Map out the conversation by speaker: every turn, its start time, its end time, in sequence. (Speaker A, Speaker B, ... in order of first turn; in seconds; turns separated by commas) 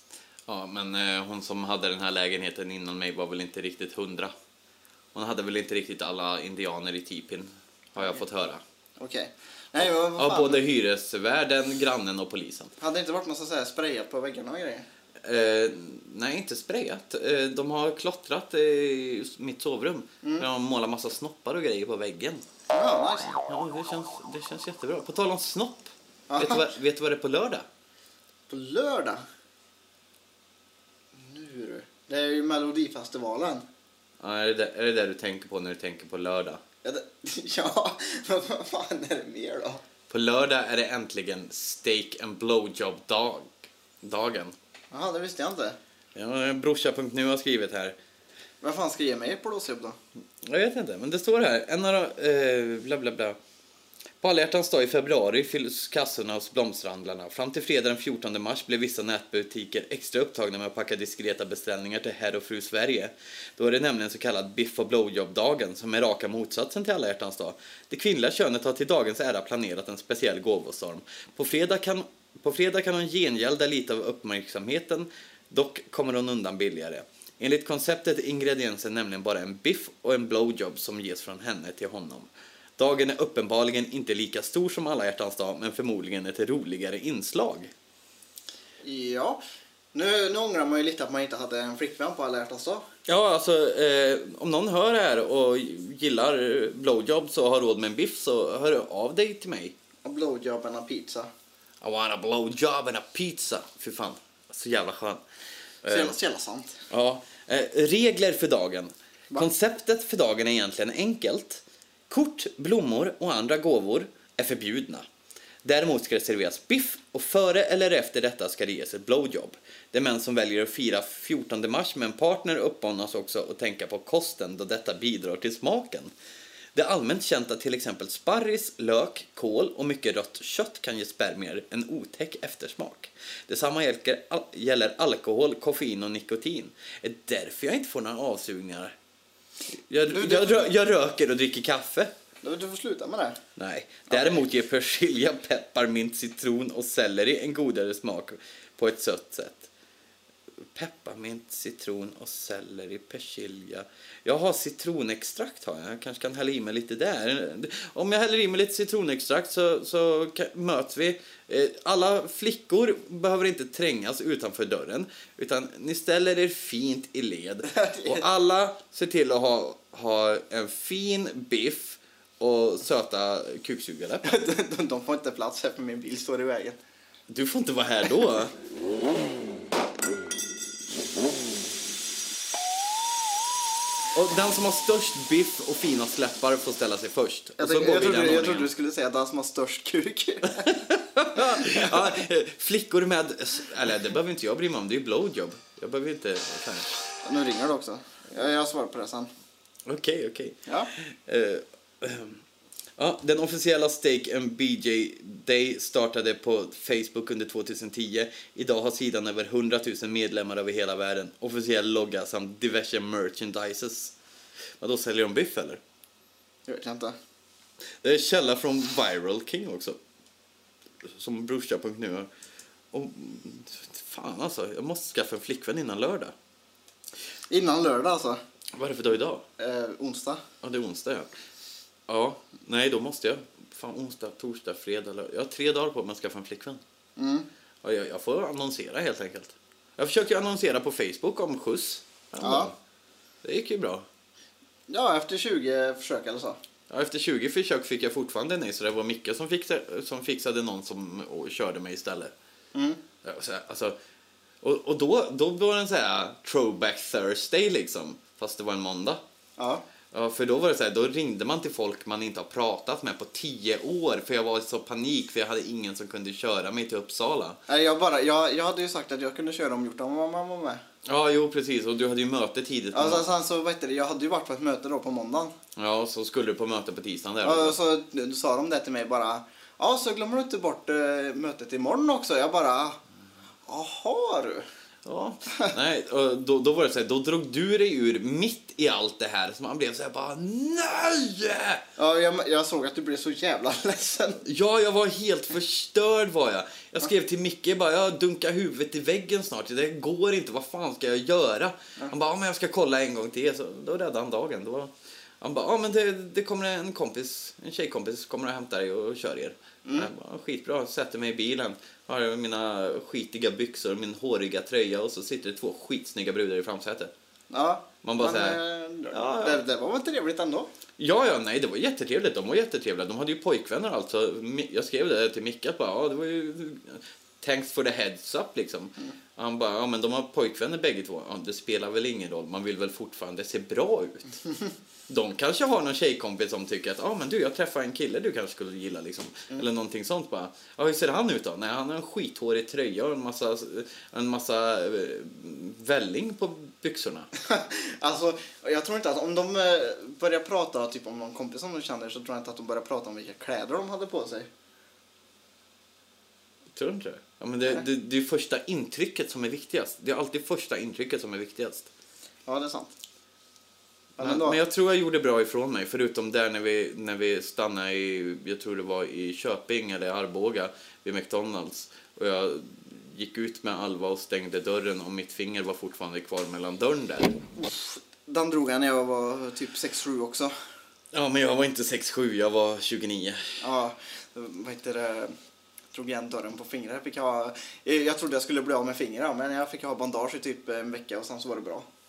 Speaker A: 0.5-4.3, Speaker A: 5.1-8.6, Speaker B: 9.0-10.6, Speaker A: 9.8-12.7, Speaker B: 12.8-14.9, Speaker A: 15.2-22.4, Speaker B: 20.2-20.5, Speaker B: 22.7-23.4, Speaker A: 23.5-27.7, Speaker B: 26.3-26.7, Speaker B: 28.5-29.2, Speaker B: 31.1-33.7, Speaker A: 34.2-36.6, Speaker B: 36.8-39.8, Speaker A: 40.1-44.5, Speaker B: 44.9-45.8, Speaker A: 46.1-48.0, Speaker B: 48.6-50.0, Speaker A: 50.4-53.4, Speaker A: 54.2-87.7, Speaker B: 88.8-89.4, Speaker B: 89.9-92.9, Speaker A: 93.1-99.7, Speaker B: 100.0-101.3, Speaker A: 101.8-105.2, Speaker A: 105.8-106.2, Speaker B: 105.9-106.8, Speaker A: 106.9-115.1, Speaker A: 115.6-126.1, Speaker A: 126.8-138.9, Speaker A: 139.7-142.1, Speaker B: 140.1-140.6, Speaker B: 142.4-143.4, Speaker A: 143.6-149.7, Speaker B: 144.1-144.4, Speaker A: 150.7-174.4, Speaker B: 167.7-168.3, Speaker B: 174.2-176.8, Speaker A: 177.3-178.5, Speaker A: 184.1-188.7, Speaker B: 187.6-190.8, Speaker A: 190.6-196.9, Speaker B: 191.4-192.3, Speaker B: 197.2-199.3, Speaker A: 199.9-202.4, Speaker A: 203.0-214.1, Speaker A: 214.8-215.8, Speaker B: 216.7-217.2, Speaker A: 218.0-220.0, Speaker A: 221.0-222.3, Speaker A: 222.9-226.3, Speaker B: 227.5-228.4, Speaker A: 228.7-229.4, Speaker B: 229.6-230.4, Speaker A: 230.6-231.3, Speaker A: 232.1-236.8, Speaker B: 237.2-237.5, Speaker A: 237.8-242.8, Speaker B: 242.4-242.7, Speaker A: 243.4-244.1, Speaker B: 244.9-246.6, Speaker A: 246.9-252.3, Speaker B: 252.7-253.0, Speaker A: 253.2-254.0, Speaker A: 254.6-259.2, Speaker B: 259.6-259.8, Speaker A: 260.1-267.6, Speaker B: 267.7-270.8, Speaker A: 271.1-273.3, Speaker B: 272.9-275.5, Speaker A: 275.8-277.8, Speaker B: 277.4-283.0, Speaker B: 283.7-284.7, Speaker A: 285.1-291.8, Speaker B: 292.0-294.4, Speaker A: 294.4-317.1, Speaker B: 309.9-310.1, Speaker B: 317.5-320.7, Speaker A: 318.0-318.6, Speaker A: 319.1-319.6, Speaker A: 321.0-334.4, Speaker A: 335.1-347.3, Speaker B: 347.4-354.5, Speaker A: 356.7-361.9, Speaker B: 362.5-362.9, Speaker B: 364.2-364.6, Speaker A: 364.2-377.4, Speaker B: 377.6-380.5, Speaker A: 381.1-383.6, Speaker B: 383.6-385.3, Speaker B: 385.9-391.9